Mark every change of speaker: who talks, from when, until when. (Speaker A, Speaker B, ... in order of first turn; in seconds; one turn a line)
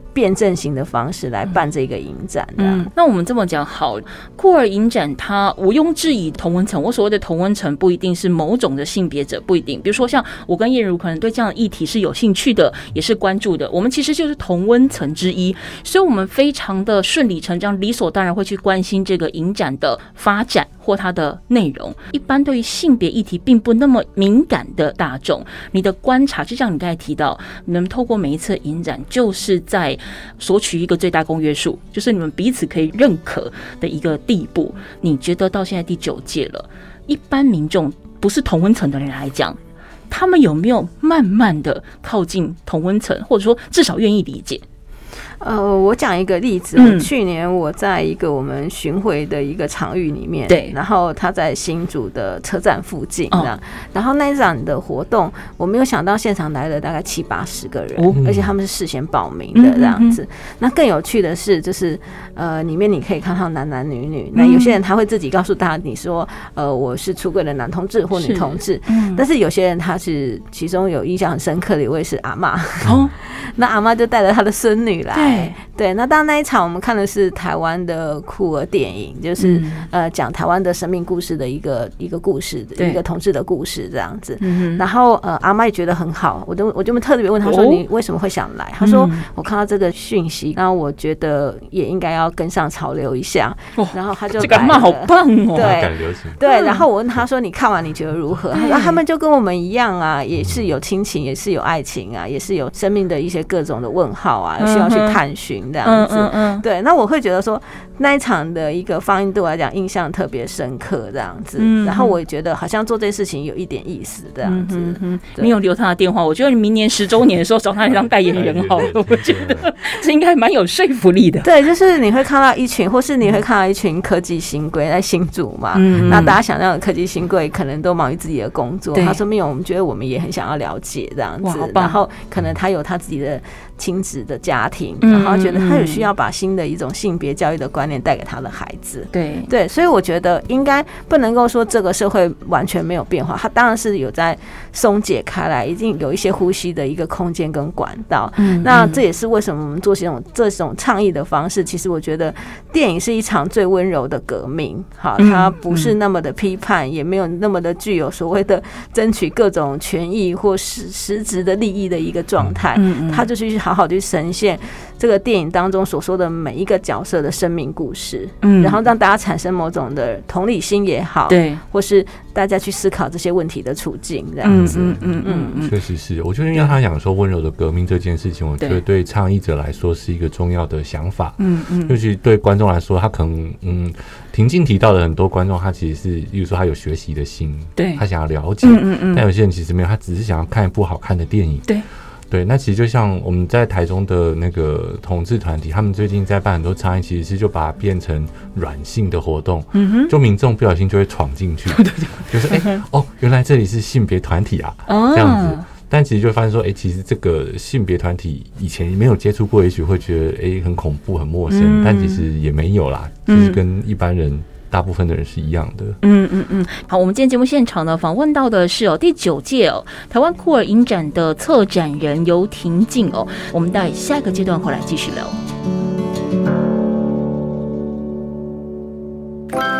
Speaker A: 0.1-2.9
Speaker B: 2.6-39.6
Speaker B: 40.1-44.6
Speaker A: 45.4-115.5
Speaker B: 46.8-47.1
Speaker B: 50.5-50.8
Speaker C: 58.1-58.5
Speaker B: 59.5-60.2
Speaker B: 64.3-64.8
Speaker B: 68.2-69.2
Speaker B: 72.8-73.1
Speaker B: 75.1-75.5
Speaker B: 79.4-79.9
Speaker B: 84.4-84.8
Speaker B: 87.4-87.8
Speaker B: 88.8-89.3
Speaker B: 93.8-95.8
Speaker C: 95.6-96.4
Speaker B: 96.4-96.8
Speaker B: 98.5-99.0
Speaker B: 104.6-105.2
Speaker B: 105.8-106.6
Speaker B: 111.6-112.2
Speaker B: 114.4-121.5
Speaker C: 117.9-119.7
Speaker A: 121.4-175.6
Speaker B: 125.7-126.4
Speaker C: 126.0-126.3
Speaker B: 128.9-129.2
Speaker B: 131.4-132.0
Speaker B: 135.0-136.1
Speaker B: 139.1-139.5
Speaker B: 148.4-149.0
Speaker B: 155.2-155.9
Speaker B: 162.7-163.3
Speaker B: 168.4-168.8
Speaker B: 171.3-171.6
Speaker B: 174.4-175.8
Speaker C: 174.5-175.0
Speaker C: 175.6-191.7
Speaker B: 181.4-182.0
Speaker B: 187.8-188.0
Speaker B: 188.6-189.2
Speaker C: 192.3-216.0
Speaker B: 199.7-200.1
Speaker B: 201.7-202.8
Speaker B: 204.9-205.7
Speaker B: 211.5-212.2
Speaker B: 213.3-213.6
Speaker B: 216.0-225.4